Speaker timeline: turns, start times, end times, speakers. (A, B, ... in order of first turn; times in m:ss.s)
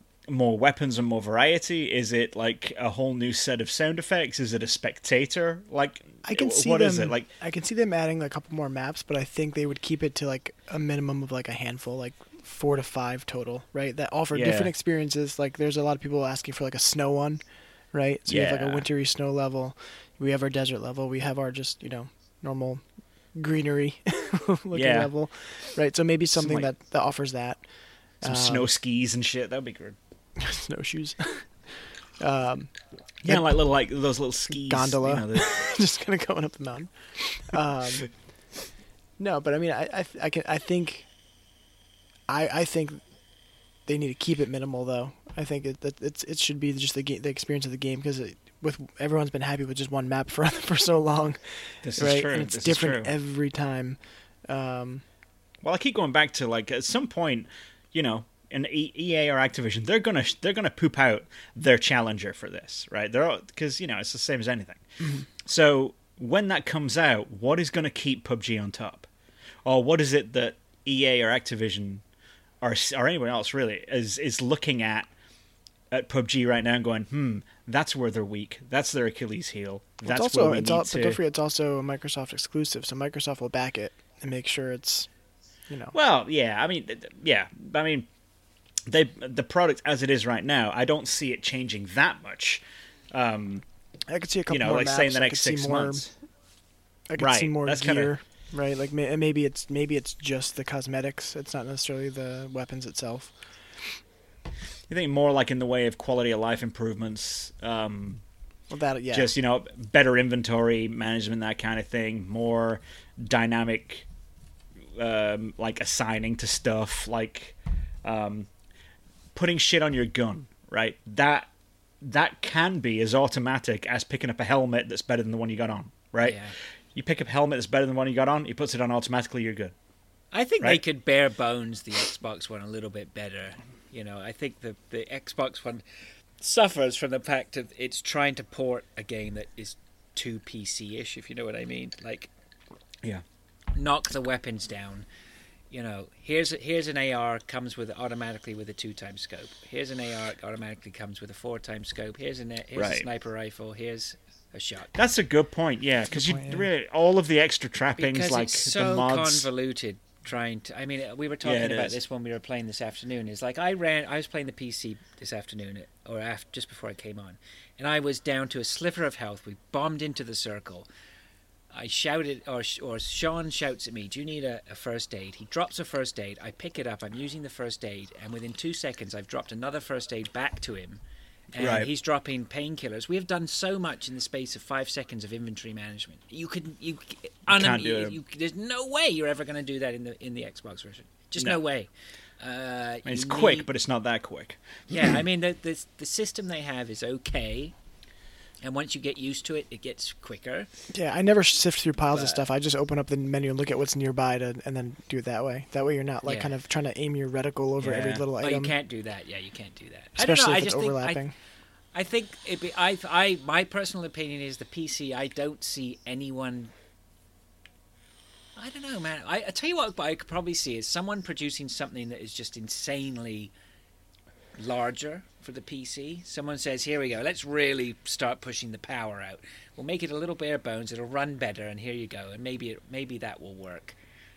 0:00.3-0:07.3 A
0:06.2-0:17.4 B
0:14.3-0:14.7 A
0:17.9-0:22.8 B
0:18.3-0:18.9 A
0:23.3-0:27.6 B
0:24.7-0:25.1 A
0:26.3-0:26.7 A
0:28.2-0:28.7 B
0:28.2-0:30.0 A
0:30.4-0:31.4 B
0:32.2-0:32.7 B
0:33.2-0:35.5 A
0:34.6-0:38.1 B
0:39.2-0:41.0 B
0:42.3-0:43.0 B
0:43.8-0:51.4 B
0:51.8-0:53.1 A
0:52.0-0:55.0 B
0:55.6-1:04.8 A
1:05.4-1:09.1 A
1:09.6-1:12.0 A
1:12.6-1:15.1 A
1:15.9-1:21.2 A
1:20.0-1:25.1 B
1:25.7-1:26.0 B
1:25.9-1:28.1 A
1:28.9-1:33.6 A
1:34.1-1:36.0 B
1:34.5-1:36.1 A
1:37.1-1:43.3 B
1:37.2-1:38.1 A
1:44.9-1:48.2 A
1:48.7-1:49.3 B
1:49.1-1:54.0 A
1:55.0-1:58.5 A
1:59.3-2:01.5 A
2:02.0-2:06.4 A
2:06.2-2:06.5 C
2:06.9-2:09.7 A
2:10.3-2:15.8 C
2:16.4-2:22.3 C
2:23.7-2:25.0 C
2:25.7-2:34.9 C
2:32.8-2:33.0 A
2:35.0-2:39.5 A
2:36.1-2:36.6 B
2:38.0-2:50.9 C
2:41.4-2:42.0 A
2:51.7-3:01.0 C
3:01.5-3:13.7 C
3:01.6-3:01.9 A
3:07.5-3:08.2 A
3:13.0-3:14.6 A
3:14.9-3:17.7 C
3:18.6-3:20.7 C
3:20.9-3:28.7 B
3:22.1-3:22.4 C
3:26.2-3:26.5 C
3:27.8-3:28.3 A
3:28.4-3:31.2 C
3:30.2-3:31.3 B
3:31.9-3:36.7 C
3:38.6-3:43.5 C
3:44.6-3:54.0 C